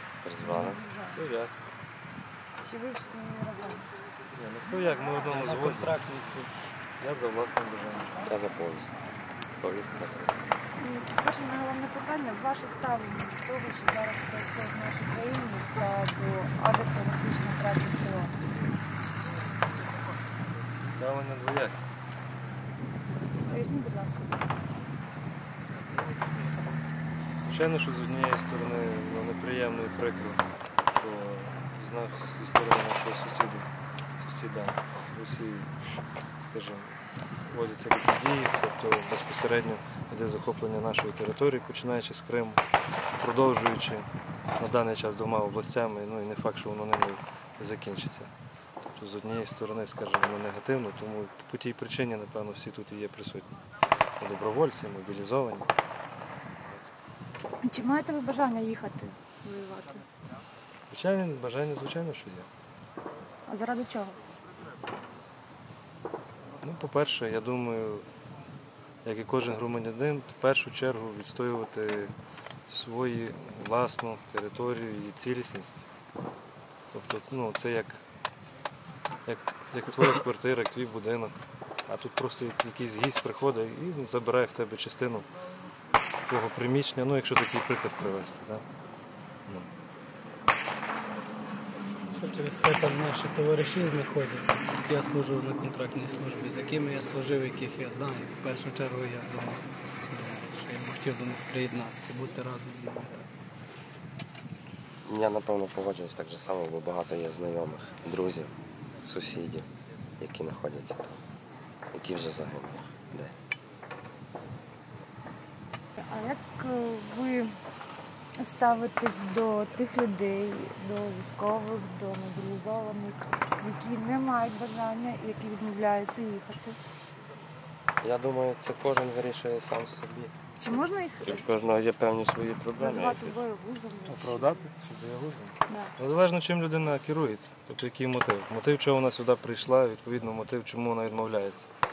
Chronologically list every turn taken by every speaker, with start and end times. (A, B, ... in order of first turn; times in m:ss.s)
0:00.2-0:00.8 A
0:00.4-0:01.2 B
0:01.1-0:01.5 C
0:02.6-0:03.8 B
0:04.3-0:06.0 C
0:05.2-0:06.5 D
0:07.0-0:08.3 C
0:08.2-0:08.9 A
0:09.6-0:10.4 A
0:10.8-0:18.4 B
0:20.9-0:21.8 C
0:23.4-0:24.4 B
0:27.4-0:30.4 C
0:30.9-0:35.7 C
0:36.4-0:42.6 C
0:43.2-0:44.0 C
0:44.6-0:48.3 C
0:48.8-0:53.5 C
0:54.2-0:55.7 C
0:57.6-1:00.0 B
1:00.9-1:02.5 C
1:03.4-1:04.2 B
1:06.6-1:08.0 C
1:09.0-1:12.1 C
1:12.7-1:15.8 C
1:16.9-1:18.0 C
1:19.2-1:21.4 C
1:21.9-1:25.3 C
1:26.3-1:28.6 C
1:32.1-1:43.3 D
1:45.0-1:49.7 A
1:50.2-1:51.2 A
1:51.9-1:53.3 A
1:56.0-1:57.6 B
1:58.4-2:06.8 B
2:08.0-2:10.3 A
2:10.6-2:11.5 B
2:11.2-2:13.4 A
2:12.7-2:14.6 B
2:14.0-2:21.7 C